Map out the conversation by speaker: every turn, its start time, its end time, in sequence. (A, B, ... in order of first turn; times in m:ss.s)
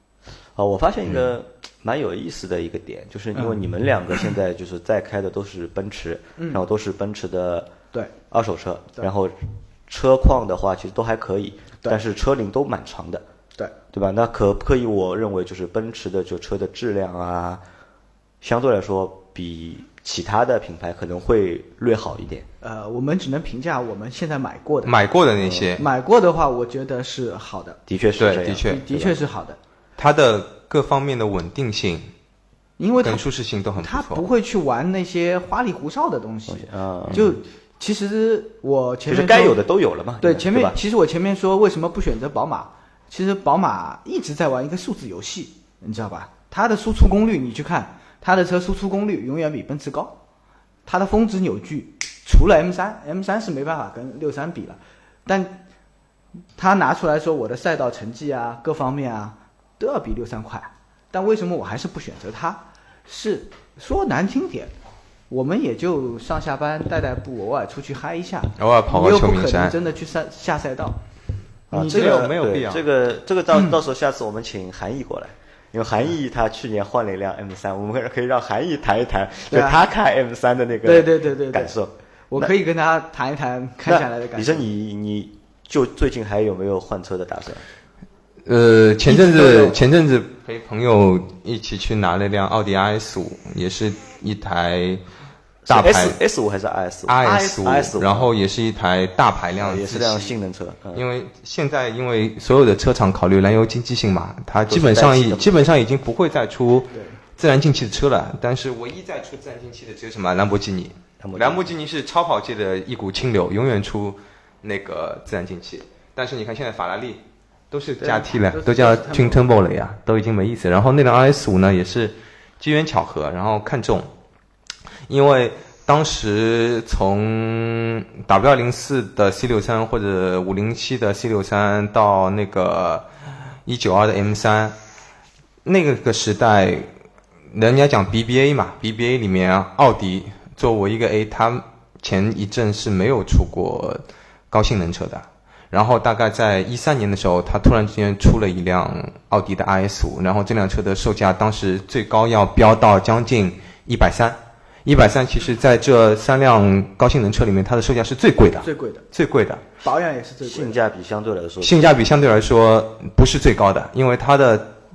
0:00.6-0:07.7 A
0:03.3-0:03.6 B
0:06.4-0:06.6 B
0:08.3-0:09.3 A
0:09.9-0:13.2 A
0:13.9-0:17.6 A
0:18.4-0:22.5 A
0:22.6-0:24.9 B
0:24.8-0:25.8 C
0:25.4-0:25.7 A
0:25.8-0:27.8 B
0:27.9-0:29.2 A
0:28.2-0:28.8 C
0:28.6-0:29.6 B
0:30.0-0:32.1 C
0:32.8-0:33.2 B
0:33.0-0:34.2 C
0:33.8-0:39.6 B
0:36.5-0:37.3 A
0:39.0-0:40.8 A
0:40.2-0:50.1 B
0:50.8-0:55.6 B
0:56.6-1:04.7 B
1:05.3-1:11.0 B
1:08.6-1:09.8 C
1:11.7-1:22.5 A
1:11.7-1:12.3 B
1:11.8-1:12.8 C
1:19.5-1:19.8 B
1:20.8-1:21.8 B
1:22.3-1:24.7 B
1:23.8-1:27.6 A
1:28.4-1:35.0 C
1:29.0-1:29.8 B
1:35.6-1:38.3 A
1:35.7-1:36.2 C
1:37.1-1:40.3 C
1:39.6-1:41.0 A
1:40.9-2:04.1 C
1:44.7-1:45.6 A
1:46.9-1:47.2 B
1:51.2-1:51.7 A
1:58.0-1:59.5 B
2:05.1-2:13.0 C
2:13.6-2:14.7 C
2:15.6-2:16.9 C
2:17.5-2:39.6 C
2:38.6-2:39.0 B
2:39.8-2:40.8 B
2:40.4-2:41.9 A
2:41.6-2:44.7 C